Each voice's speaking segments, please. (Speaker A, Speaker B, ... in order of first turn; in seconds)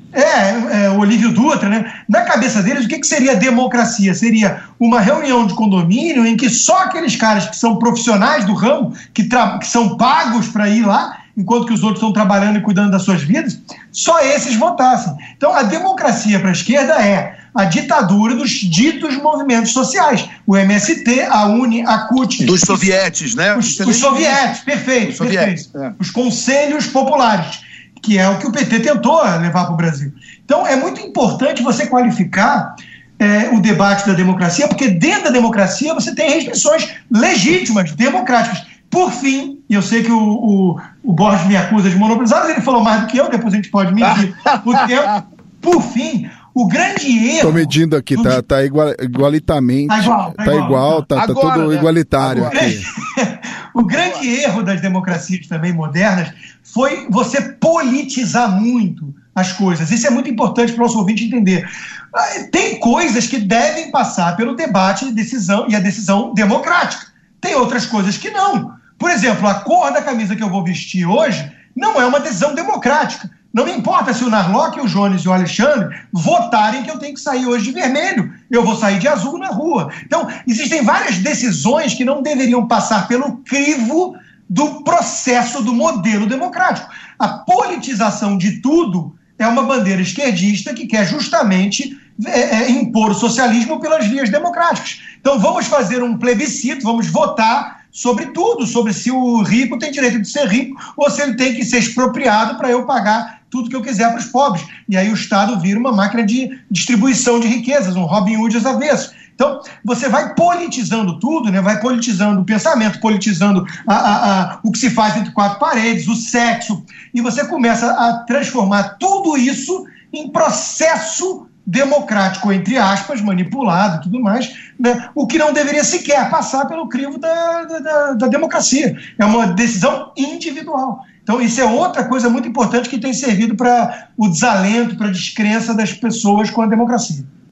Speaker A: 0.1-22.9, 23.6-48.4, 49.9-51.0, 52.5-137.3
Speaker B: 22.4-24.5, 25.0-25.9, 44.0-45.2, 51.1-52.9, 53.9-54.2
Speaker C: 47.4-52.9